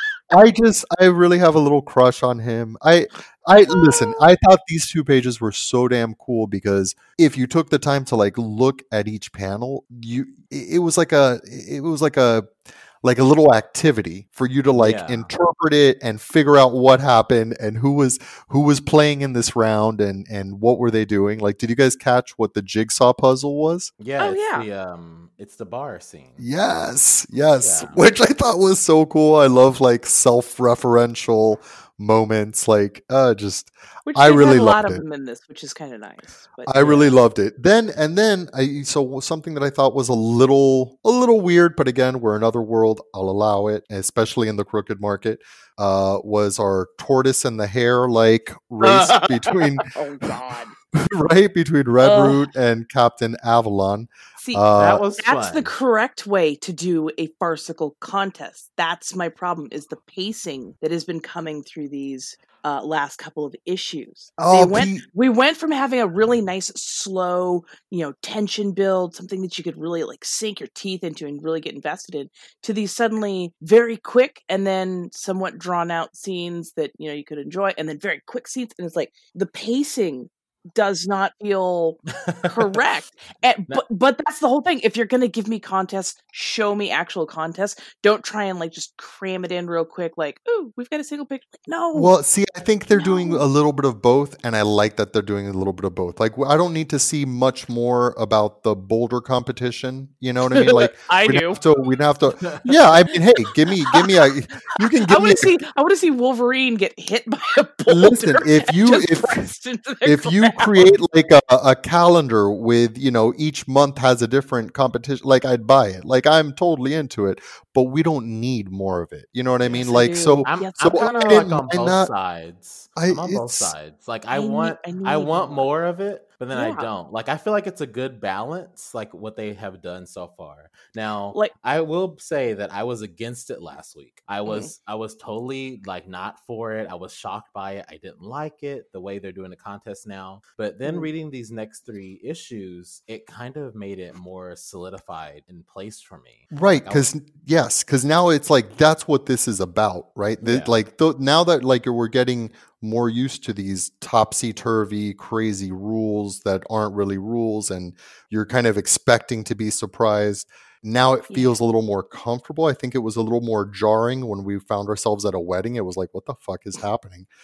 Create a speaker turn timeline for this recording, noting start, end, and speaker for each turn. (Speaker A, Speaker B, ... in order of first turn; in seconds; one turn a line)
Speaker A: 0.3-23.9
Speaker B: 14.8-15.3
Speaker B: 24.0-26.4
Speaker C: 24.2-24.7
Speaker A: 26.4-35.0
Speaker B: 27.6-28.0
Speaker C: 34.1-37.1
Speaker A: 36.7-49.9
Speaker C: 48.8-50.7
Speaker A: 51.0-55.0
Speaker C: 52.0-52.4
Speaker C: 54.4-54.6
Speaker B: 54.8-55.7
Speaker C: 55.2-92.1
Speaker A: 64.4-65.0
Speaker B: 82.3-82.6
Speaker A: 91.9-105.6
Speaker C: 92.9-93.4
Speaker C: 100.5-101.6
Speaker C: 105.1-110.9
Speaker A: 107.9-109.5
Speaker A: 110.0-122.1
Speaker B: 119.7-147.1
Speaker C: 119.8-121.4
Speaker A: 123.0-123.7
Speaker C: 124.3-125.7
Speaker C: 126.5-126.9
Speaker C: 134.5-134.7
Speaker A: 146.5-167.3
Speaker B: 150.4-150.7
Speaker C: 161.3-161.6